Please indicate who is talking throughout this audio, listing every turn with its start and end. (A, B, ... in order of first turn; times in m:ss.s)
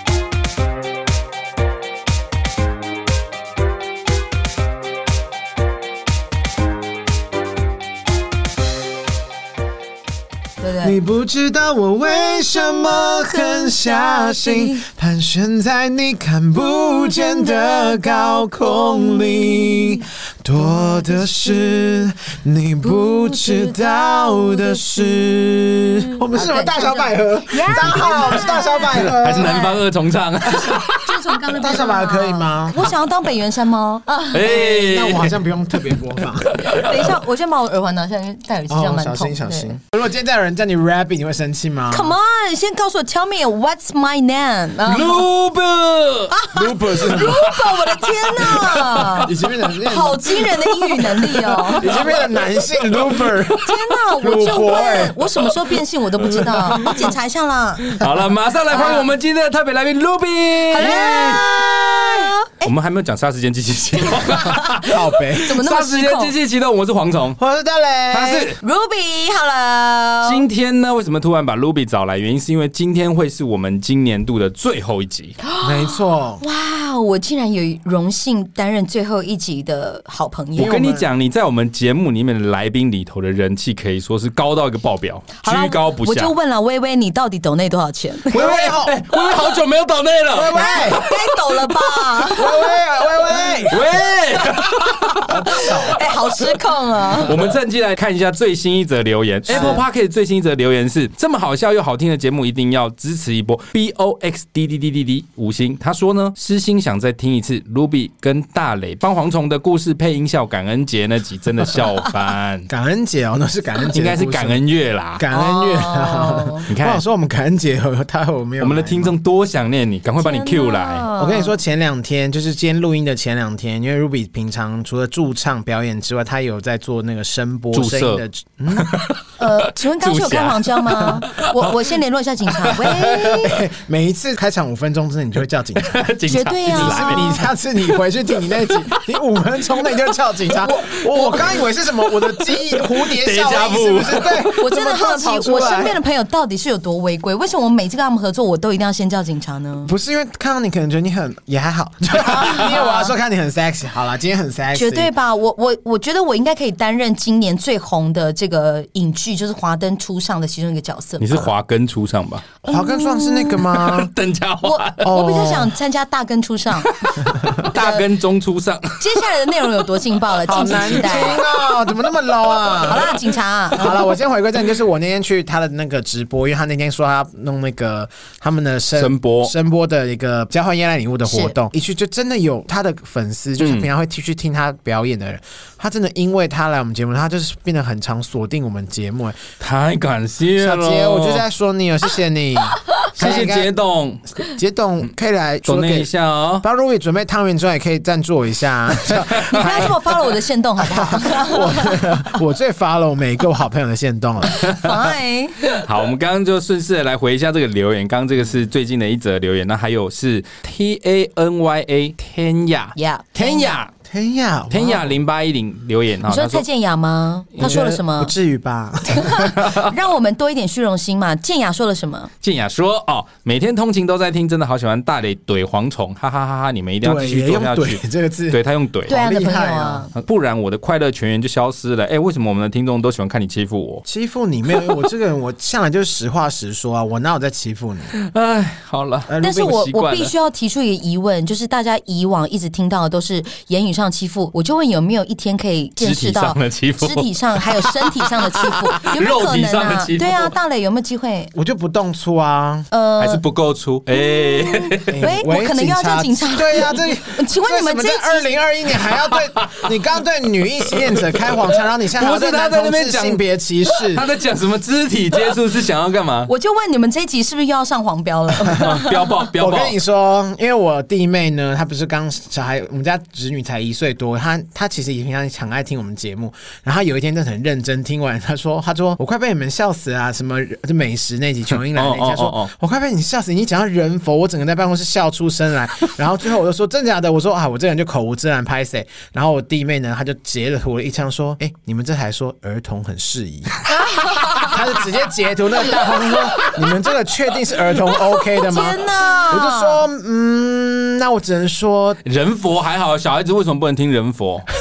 0:10.6-0:11.0 A
0:10.8-0:29.6 B
0:12.1-0:14.8 A
0:16.7-0:20.0 A
0:20.6-0:21.9 A
0:22.8-0:25.4 A
0:26.3-0:29.8 A
0:27.7-0:31.3 C
0:30.4-0:34.9 A
0:31.6-0:32.9 B
0:34.3-0:36.0 C
0:34.7-0:36.8 B
0:36.5-0:37.1 C
0:36.7-0:39.7 A
0:38.7-0:42.1 B
0:41.9-0:45.2 A
0:44.8-0:46.4 C
0:46.3-0:49.3 A
0:46.5-0:47.5 B
0:47.0-0:49.8 C
0:49.2-0:50.3 B
0:49.8-0:51.9 A
0:50.4-0:53.7 C
0:51.8-0:53.7 B
0:53.6-0:57.9 A
0:54.2-0:55.2 B
0:56.2-0:57.1 C
0:57.9-1:01.5 C
0:58.7-0:59.0 A
1:00.7-1:02.7 A
1:02.6-1:07.4 C
1:04.0-1:04.8 A
1:04.9-1:05.6 B
1:05.4-1:06.3 A
1:07.4-1:08.5 B
1:08.1-1:08.6 C
1:08.6-1:10.4 A
1:10.2-1:15.3 C
1:15.4-1:20.7 A
1:15.6-1:16.4 B
1:20.5-1:21.1 B
1:20.6-1:26.3 C
1:25.4-1:28.5 A
1:28.3-1:29.0 B
1:28.3-1:32.1 C
1:30.3-1:31.1 B
1:30.5-1:32.6 A
1:32.3-1:33.9 B
1:33.6-1:35.8 C
1:35.1-1:37.3 A
1:35.2-1:36.1 B
1:37.2-1:52.7 C
1:39.5-1:39.8 B
1:39.5-1:39.8 A
1:52.7-1:59.1 B
1:53.9-1:55.2 C
1:55.3-1:56.7 A
1:56.7-1:57.0 C
1:58.6-2:01.1 C
2:00.2-2:01.6 A
2:01.2-2:09.0 B
2:07.7-2:08.2 C
2:08.7-2:11.9 C
2:09.4-2:13.5 A
2:12.6-2:13.6 C
2:13.1-2:16.2 B
2:15.8-2:17.4 C
2:16.3-2:17.4 A
2:16.7-2:26.0 B
2:18.0-2:19.2 C
2:19.8-2:20.2 C
2:20.6-2:21.6 A
2:21.3-2:24.6 C
2:24.6-2:29.9 A
2:29.8-2:35.1 B
2:32.2-2:33.1 A
2:34.7-2:41.5 A
2:41.2-2:42.5 C
2:42.6-2:44.1 B
2:42.7-2:43.7 A
2:43.7-2:45.2 C
2:44.6-2:48.0 A
2:45.0-2:45.7 B
2:46.8-2:49.2 C
2:47.3-2:47.6 B
2:49.0-2:51.4 A
2:50.4-2:53.1 B
2:50.7-2:51.9 C
2:52.8-2:53.9 A
2:53.7-3:09.4 B
2:58.9-2:59.5 C
3:01.2-3:01.6 A
3:03.6-3:03.9 C
3:09.6-3:11.4 C
3:10.6-3:13.7 B
3:13.1-3:14.3 C
3:14.5-3:16.1 B
3:15.6-3:16.6 C
3:16.6-3:19.9 B
3:19.0-3:19.9 C
3:19.5-3:21.9 A
3:20.8-3:24.6 B
3:24.5-3:25.6 A
3:24.6-3:33.9 C
3:32.9-3:33.8 A
3:34.0-3:35.1 B
3:34.7-3:36.6 C
3:36.3-3:38.3 A
3:37.5-3:37.8 C
3:37.6-3:39.7 B
3:39.1-3:42.3 A
3:39.6-3:39.9 C
3:42.4-3:49.1 C
3:47.0-3:50.1 B
3:49.1-3:50.1 A
3:50.2-3:54.0 C
3:54.0-3:58.1 B
3:58.1-4:00.3 C
3:59.3-3:59.8 B
3:59.4-4:11.5 A
4:06.0-4:10.5 C
4:11.5-4:12.9 B
4:12.9-4:13.4 A
4:13.2-4:15.2 C
4:14.1-4:18.5 A
4:15.1-4:24.2 B
4:19.3-4:19.9 C
4:20.9-4:21.6 C
4:22.2-4:26.5 C
4:26.5-4:29.2 A
4:28.6-4:29.0 B
4:28.7-4:30.0 C
4:29.5-4:53.8 B
4:41.9-4:42.7 C
4:53.9-4:54.8 A
4:54.6-5:02.2 B
4:58.3-5:00.0 A
5:02.2-5:04.7 C